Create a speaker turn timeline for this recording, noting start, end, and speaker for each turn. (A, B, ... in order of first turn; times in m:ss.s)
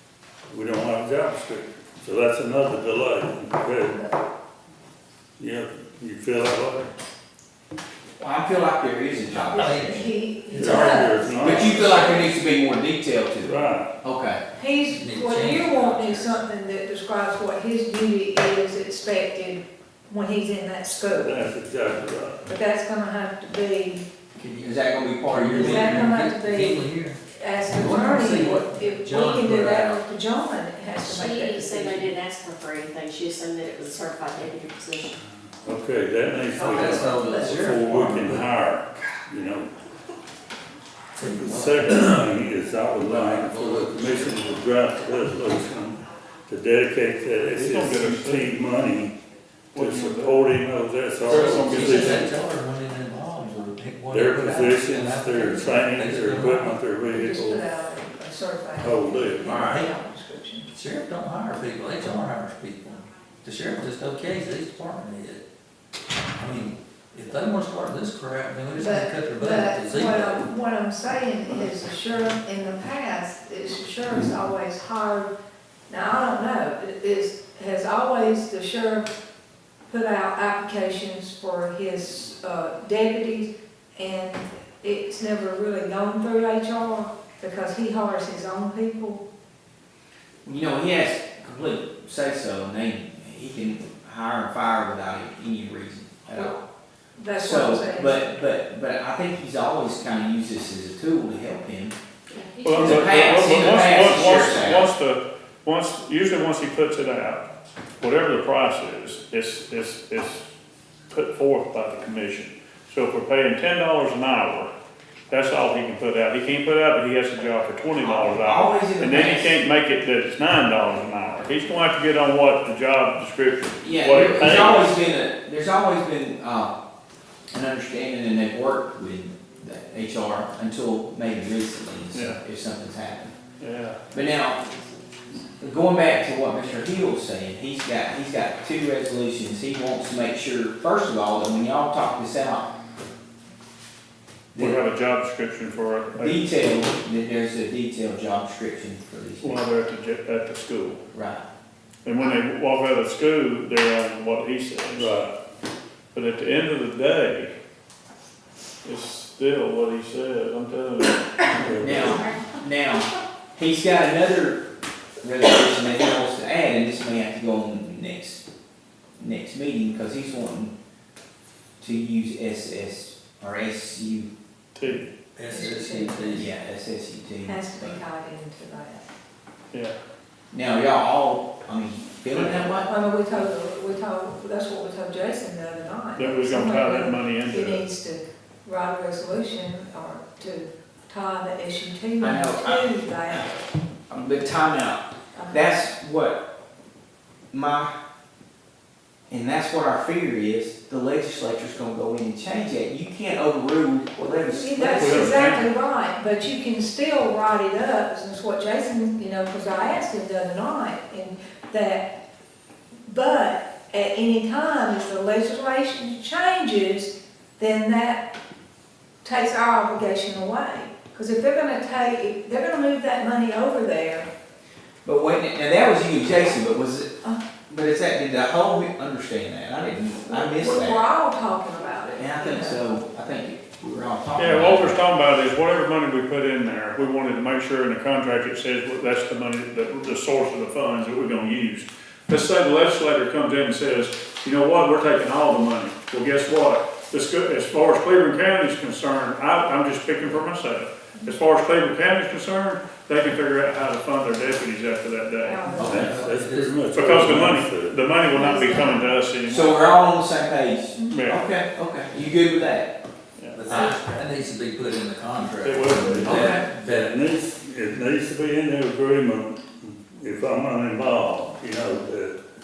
0:00.5-0:04.0 A
0:05.4-0:06.9 A
0:08.2-0:10.0 B
0:09.3-0:11.0 C
0:09.4-0:12.4 D
0:10.5-0:12.1 A
0:11.4-0:14.4 B
0:13.4-0:13.9 A
0:14.6-0:21.4 D
0:14.9-0:16.4 C
0:21.1-0:22.4 A
0:22.5-0:24.0 D
0:24.4-0:27.2 C
0:24.6-0:26.1 B
0:25.6-0:32.2 D
0:27.7-0:30.0 C
0:31.0-0:35.2 E
0:35.4-0:39.7 A
0:36.6-0:38.5 C
0:41.2-0:42.0 C
0:41.2-0:49.2 A
0:43.0-0:44.4 C
0:47.5-0:48.5 F
0:49.7-0:50.5 F
0:49.8-0:52.3 A
0:51.2-0:52.3 F
0:51.3-0:56.7 C
0:54.1-0:57.7 A
0:57.1-1:00.7 D
0:58.8-0:59.6 A
0:59.5-0:59.8 B
0:59.5-0:59.9 C
1:00.7-1:05.4 C
1:06.4-1:10.4 C
1:08.8-1:15.3 D
1:15.9-1:19.1 D
1:19.9-1:29.2 D
1:30.4-1:36.6 B
1:37.2-1:38.3 D
1:37.4-1:42.0 B
1:42.3-1:43.3 E
1:42.6-1:47.5 F
1:42.8-1:44.9 B
1:48.0-1:50.4 F
1:51.1-1:54.7 F
1:55.3-2:04.9 F
1:58.0-1:59.6 B
2:03.8-2:06.7 B
2:07.5-2:13.4 B
2:12.1-2:12.4 F
2:13.6-2:14.0 F
2:14.1-2:14.7 B
2:15.6-2:22.7 B
2:24.6-2:24.8 B
2:24.6-2:26.5 F
2:26.2-2:29.6 B
2:29.4-2:31.0 F
2:31.1-2:31.5 B
2:32.0-2:35.1 F
2:35.0-2:35.4 A
2:36.1-2:37.5 F
2:38.8-2:41.5 F
2:41.5-2:42.3 A
2:41.8-2:44.6 B
2:42.2-2:42.4 E
2:45.2-2:48.4 B
2:49.2-2:50.8 B
2:51.8-2:54.3 B
2:54.8-2:55.1 F
2:55.4-2:56.5 C
2:55.5-2:56.4 D
2:56.3-2:58.0 B
2:57.4-2:59.1 D
3:00.5-3:02.9 B
3:02.3-3:02.7 F
3:02.8-3:13.6 D
3:06.2-3:07.8 F
3:12.2-3:13.5 B
3:14.1-3:16.4 B
3:15.3-3:15.8 D
3:17.5-3:17.9 B
3:19.3-3:25.4 B
3:24.3-3:32.1 D
3:25.0-3:25.7 F
3:33.1-3:38.3 D
3:39.2-3:44.3 D
3:45.0-3:47.1 B
3:47.7-3:51.0 B
3:50.3-3:52.8 D
3:52.2-3:55.0 B
3:54.4-4:15.8 F
4:15.4-4:16.2 D
4:15.8-4:16.7 C
4:15.8-4:18.0 A
4:16.9-4:19.8 F
4:18.2-4:19.2 D
4:19.5-4:23.0 B
4:21.1-4:21.5 F
4:23.4-4:23.8 F
4:23.6-4:27.1 C
4:23.7-4:24.0 B
4:25.6-4:26.6 F
4:26.0-4:32.4 A
4:26.2-4:26.6 B